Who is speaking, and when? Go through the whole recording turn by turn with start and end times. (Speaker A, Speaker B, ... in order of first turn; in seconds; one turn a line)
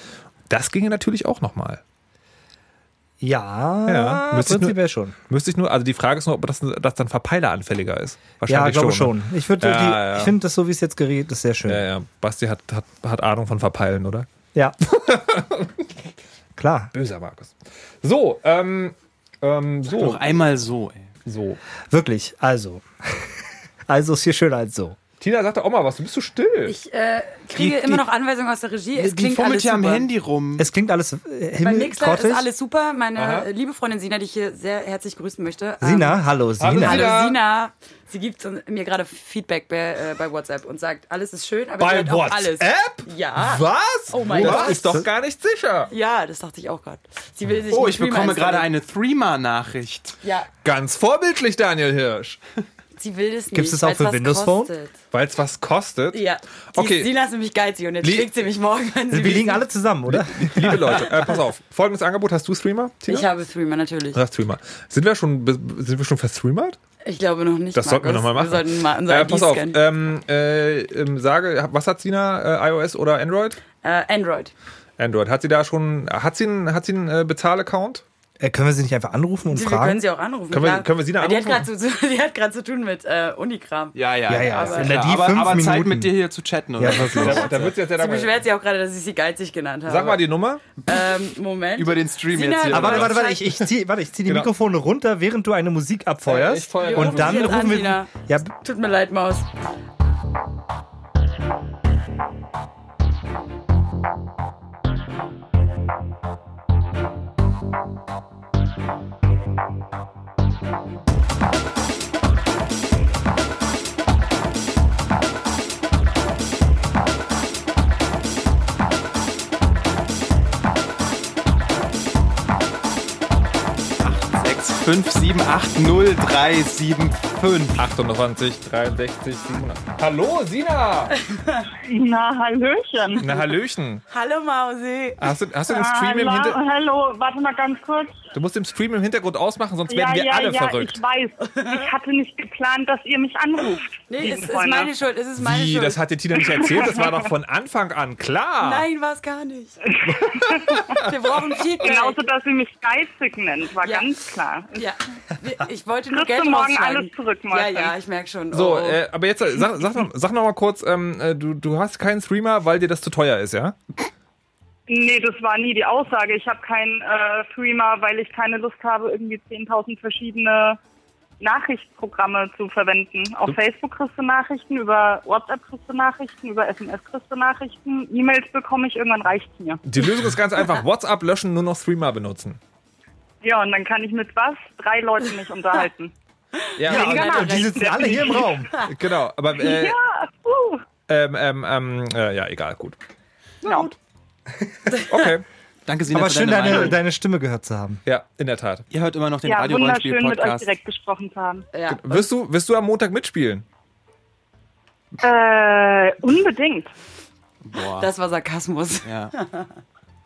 Speaker A: 0.5-1.8
Speaker B: 3.2-5.2
Speaker A: 3.9-4.8
Speaker A: 5.3-10.3
Speaker B: 8.5-11.8
Speaker A: 11.7-14.3
Speaker A: 14.8-15.9
Speaker B: 16.6-16.9
Speaker A: 16.9-20.3
Speaker C: 19.9-21.1
Speaker A: 21.2-21.6
Speaker B: 21.9-25.0
Speaker A: 25.2-26.8
Speaker D: 26.7-30.1
Speaker C: 27.6-28.0
Speaker C: 28.9-30.7
Speaker B: 30.6-32.5
Speaker D: 31.6-36.2
Speaker A: 33.2-33.5
Speaker B: 35.8-37.1
Speaker A: 36.6-37.4
Speaker D: 36.8-44.9
Speaker A: 41.8-45.9
Speaker B: 44.3-45.1
Speaker D: 45.9-48.7
Speaker C: 47.7-50.2
Speaker D: 50.2-50.5
Speaker A: 50.6-52.4
Speaker D: 53.0-54.9
Speaker B: 53.5-54.7
Speaker A: 55.1-56.2
Speaker D: 56.1-59.6
Speaker A: 56.7-57.1
Speaker A: 58.0-58.3
Speaker B: 59.1-61.1
Speaker A: 60.1-63.3
Speaker D: 63.1-64.2
Speaker A: 64.1-66.8
Speaker D: 67.0-69.8
Speaker A: 67.8-73.6
Speaker D: 73.8-74.5
Speaker A: 75.0-78.0
Speaker B: 78.4-80.0
Speaker D: 79.5-85.0
Speaker A: 80.5-81.7
Speaker C: 84.0-87.8
Speaker B: 84.3-86.1
Speaker B: 86.8-87.5
Speaker A: 87.1-88.4
Speaker D: 87.1-90.3
Speaker A: 89.9-90.7
Speaker D: 90.9-93.5
Speaker C: 91.8-93.2
Speaker B: 92.7-98.5
Speaker A: 96.2-97.6
Speaker D: 96.8-99.5
Speaker C: 124.0-127.8
Speaker A: 127.8-131.2
Speaker D: 131.3-131.6
Speaker E: 131.8-133.2
Speaker A: 133.2-134.0
Speaker D: 134.1-135.2
Speaker A: 135.2-136.6
Speaker E: 135.7-138.2
Speaker A: 138.3-141.0
Speaker E: 139.9-144.9
Speaker D: 141.4-141.9
Speaker D: 144.1-146.0
Speaker A: 145.4-148.9
Speaker E: 146.5-147.1
Speaker D: 148.6-149.8
Speaker E: 150.0-151.0
Speaker A: 150.2-150.8
Speaker D: 150.9-152.2
Speaker E: 151.8-154.8
Speaker D: 153.8-154.1
Speaker D: 154.7-159.0
Speaker E: 156.1-157.9
Speaker A: 158.5-163.8
Speaker E: 164.9-170.8
Speaker E: 171.4-179.8
Speaker A: 179.8-182.6
Speaker E: 183.4-186.1
Speaker A: 186.8-187.6
Speaker E: 186.8-188.7
Speaker B: 186.9-188.7
Speaker D: 187.0-187.6
Speaker A: 188.9-190.0
Speaker E: 189.6-190.8
Speaker A: 191.1-193.0
Speaker E: 193.6-193.9
Speaker A: 193.6-194.0
Speaker A: 195.1-195.4
Speaker C: 195.9-197.0
Speaker B: 196.1-198.0
Speaker A: 198.1-198.9
Speaker C: 198.9-200.7
Speaker E: 199.4-201.7
Speaker D: 201.7-202.2
Speaker A: 201.9-203.7
Speaker E: 205.2-206.9
Speaker C: 207.6-208.1
Speaker D: 208.0-209.8
Speaker C: 209.1-209.3